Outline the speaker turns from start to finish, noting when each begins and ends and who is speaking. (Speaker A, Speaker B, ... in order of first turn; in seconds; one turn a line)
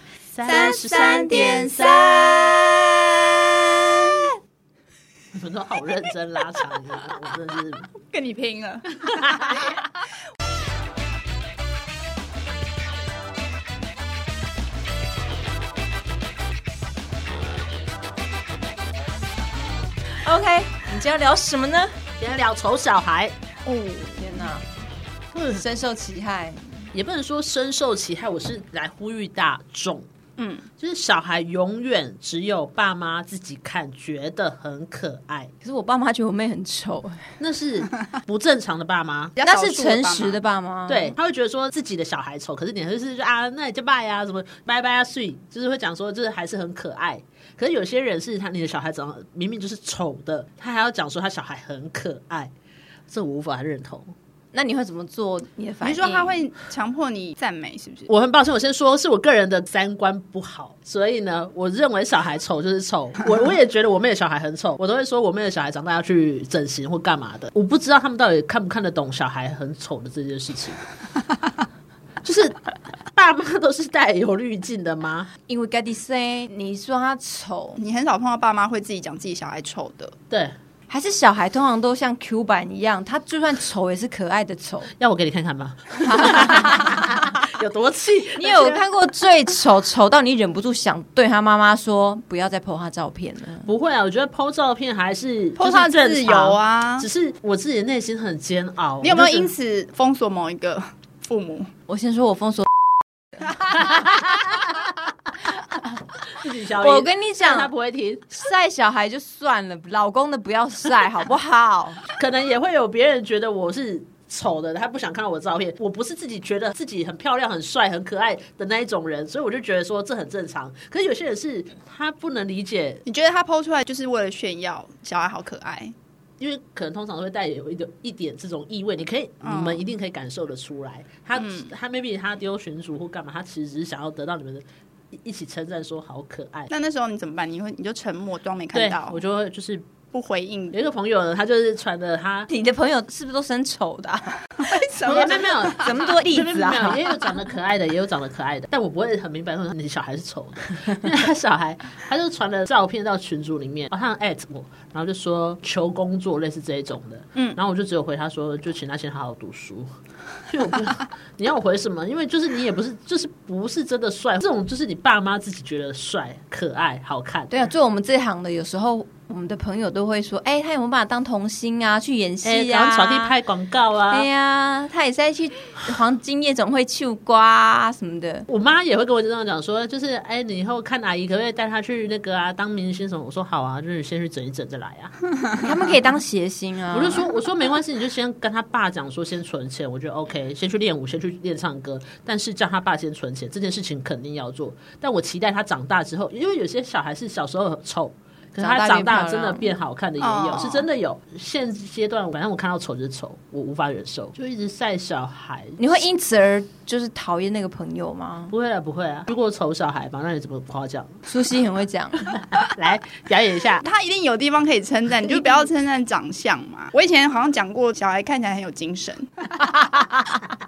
Speaker A: 0.3-2.5
Speaker B: 0.4-2.8
Speaker C: 1.5-1.7
Speaker A: 5.3-7.9
Speaker B: 8.1-9.9
Speaker A: 9.4-9.7
Speaker C: 20.2-21.9
Speaker A: 22.2-23.3
Speaker B: 23.6-24.5
Speaker C: 24.2-24.6
Speaker A: 25.3-25.6
Speaker C: 25.5-26.6
Speaker A: 26.9-30.1
Speaker B: 30.4-30.6
Speaker A: 30.8-35.5
Speaker C: 35.6-37.2
Speaker A: 37.4-39.4
Speaker B: 39.4-40.4
Speaker C: 39.4-41.1
Speaker A: 40.9-52.5
Speaker A: 53.1-54.1
Speaker C: 54.5-56.4
Speaker B: 55.8-58.1
Speaker A: 58.1-70.8
Speaker A: 72.2-72.6
Speaker A: 73.1-75.3
Speaker C: 75.5-77.8
Speaker B: 77.8-80.1
Speaker C: 80.9-84.9
Speaker A: 85.0-88.8
Speaker C: 86.1-87.0
Speaker C: 88.4-93.7
Speaker A: 93.6-99.5
Speaker B: 95.6-97.1
Speaker B: 99.0-101.7
Speaker C: 101.9-102.7
Speaker A: 106.3-108.3
Speaker C: 106.8-107.7
Speaker C: 108.3-112.0
Speaker A: 112.1-123.0
Speaker B: 123.0-125.9
Speaker A: 126.4-136.7
Speaker B: 129.4-129.8
Speaker B: 131.3-131.7
Speaker B: 136.7-139.2
Speaker A: 138.7-139.9
Speaker B: 140.1-140.8
Speaker A: 140.7-142.5
Speaker C: 142.5-147.0
Speaker B: 144.6-146.0
Speaker A: 145.1-159.9
Speaker A: 160.5-167.7
Speaker C: 167.5-173.3
Speaker A: 172.4-174.3
Speaker C: 174.1-178.5
Speaker A: 178.5-185.1
Speaker C: 185.6-187.3
Speaker A: 186.9-206.0
Speaker C: 198.6-199.7
Speaker B: 200.2-200.9
Speaker C: 205.8-208.5
Speaker A: 208.5-211.2
Speaker C: 211.2-212.3
Speaker A: 212.3-213.8
Speaker B: 213.8-219.8
Speaker C: 215.3-215.6
Speaker C: 219.9-220.2